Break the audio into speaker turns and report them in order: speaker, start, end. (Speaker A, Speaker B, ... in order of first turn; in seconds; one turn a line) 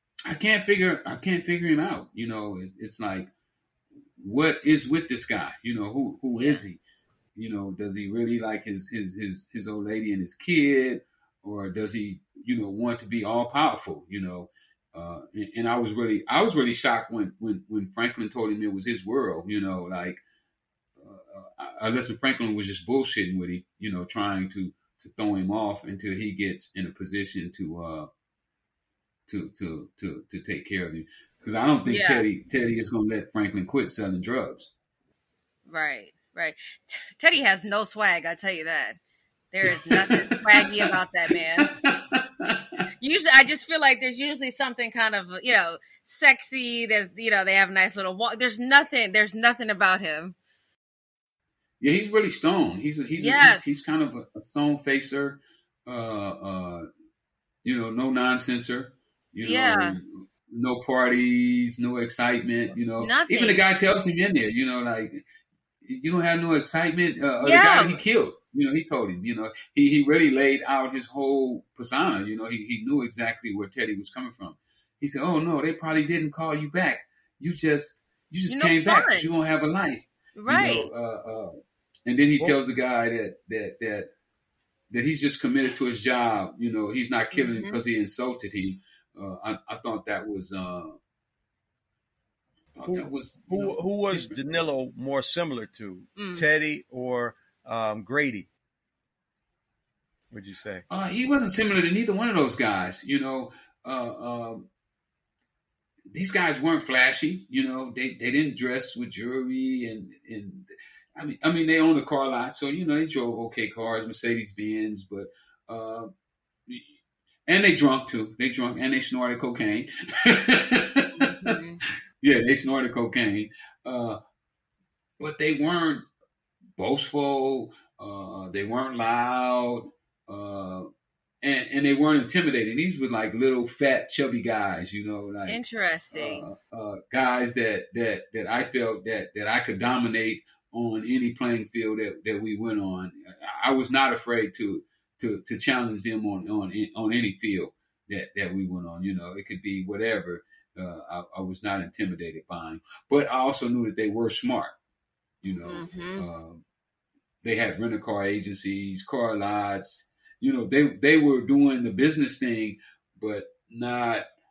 Speaker A: 0.3-3.3
Speaker A: 4.2-6.8
Speaker B: 6.3-6.6
Speaker A: 7.4-20.2
Speaker A: 21.0-28.1
Speaker A: 29.3-34.7
Speaker B: 31.9-32.2
Speaker B: 35.7-39.0
Speaker B: 39.5-41.7
Speaker A: 39.7-42.9
Speaker B: 43.0-50.4
Speaker A: 51.8-56.9
Speaker B: 53.2-53.8
Speaker A: 57.6-65.2
Speaker B: 59.4-60.0
Speaker B: 63.0-63.6
Speaker A: 65.8-81.5
Speaker B: 67.4-68.0
Speaker B: 78.5-79.3
Speaker B: 80.4-80.9
Speaker A: 82.1-84.1
Speaker A: 84.9-91.0
Speaker B: 87.3-87.8
Speaker A: 92.8-94.4
Speaker C: 92.9-98.5
Speaker B: 96.2-96.5
Speaker C: 100.3-100.9
Speaker A: 100.9-104.7
Speaker A: 106.1-116.1
Speaker A: 116.7-117.0
Speaker A: 117.5-121.6
Speaker B: 121.2-121.8
Speaker A: 122.2-124.2
Speaker A: 125.2-126.1
Speaker A: 126.8-130.9
Speaker A: 131.4-135.6
Speaker B: 135.5-136.5
Speaker A: 136.1-154.8
Speaker A: 155.4-156.6
Speaker B: 155.6-156.3
Speaker A: 157.4-164.2